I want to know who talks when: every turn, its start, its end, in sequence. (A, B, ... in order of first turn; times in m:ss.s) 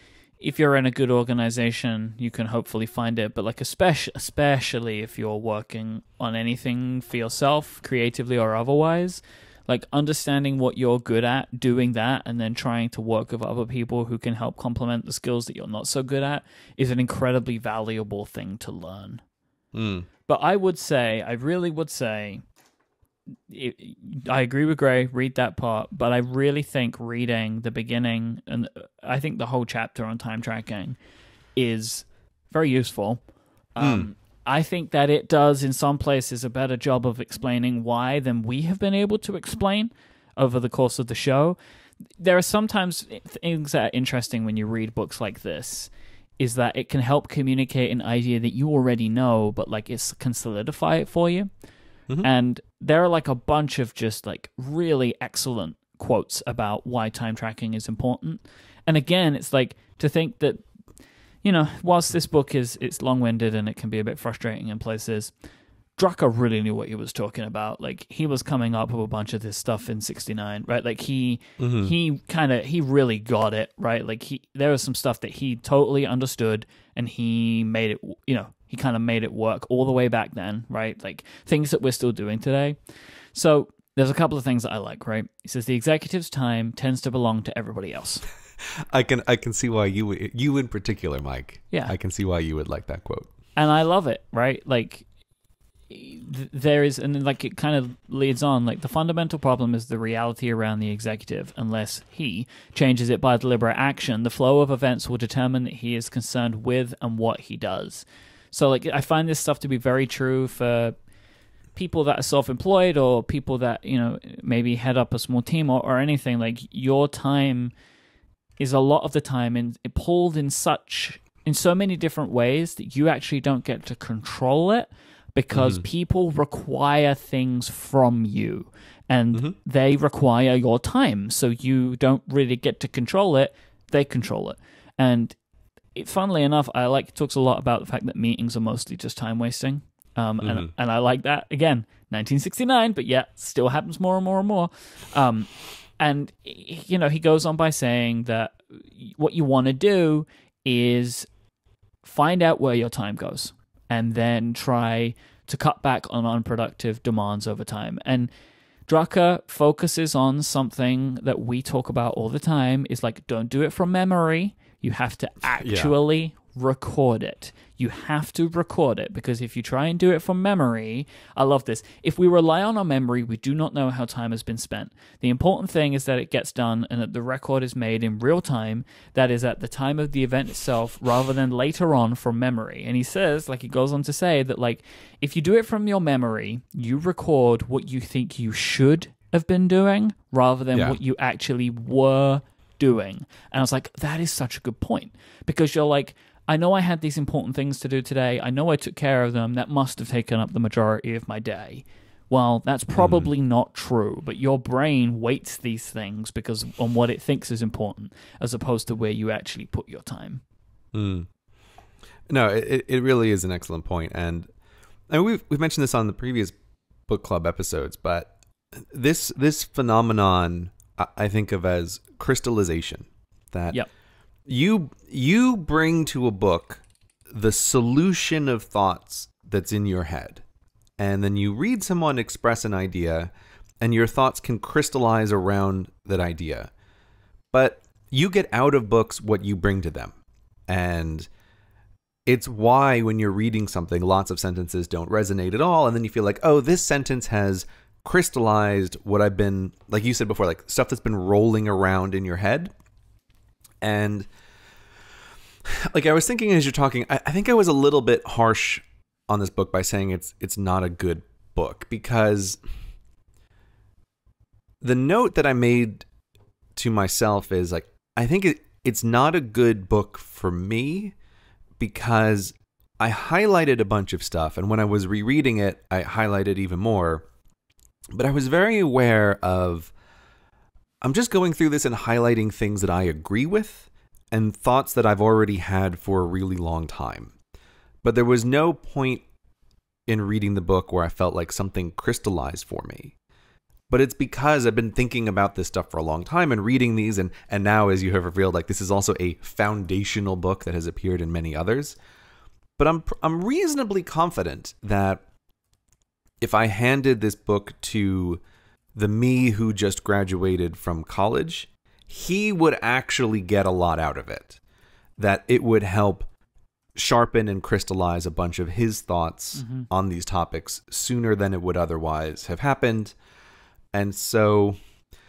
0:00.4-0:19.2 A
0:19.7-0:20.1 B
0:20.3-0:22.4 A
0:23.5-0:31.0 A
0:31.6-0:33.2 A
0:33.8-0:41.6 A
0:33.8-0:34.1 B
0:42.2-0:51.5 A
0:52.2-1:00.6 A
1:01.4-1:05.3 A
1:06.0-1:22.8 A
1:11.6-1:12.0 B
1:23.3-1:28.2 A
1:28.9-1:33.3 B
1:33.6-1:35.0 A
1:35.9-1:50.9 A
1:51.8-1:57.7 A
1:58.6-2:15.4 A
2:05.5-2:05.8 B
2:16.0-2:31.3 A
2:20.4-2:20.7 B
2:32.0-2:38.3 A
2:38.9-3:30.4 A
2:45.6-2:46.0 B
3:23.0-3:23.3 B
3:30.9-3:31.3 B
3:32.3-3:34.5 B
3:35.1-3:36.5 B
3:37.1-3:43.8 B
3:44.5-3:50.4 B
3:51.0-3:56.7 B
3:57.5-4:00.2 B
4:00.7-4:01.3 B
4:02.3-4:12.7 B
4:13.8-4:14.3 B
4:15.6-4:22.6 B
4:24.8-4:26.0 B
4:26.8-4:31.1 B
4:31.8-4:37.3 B
4:38.2-4:39.9 B
4:41.0-4:47.3 B
4:48.0-4:49.2 B
4:50.1-4:53.1 B
4:53.9-5:02.0 B
5:02.8-5:05.2 B
5:06.4-5:08.4 B
5:09.0-5:14.6 B
5:15.2-5:16.3 B
5:17.0-5:23.2 B
5:19.6-5:19.9 A
5:23.9-5:24.8 B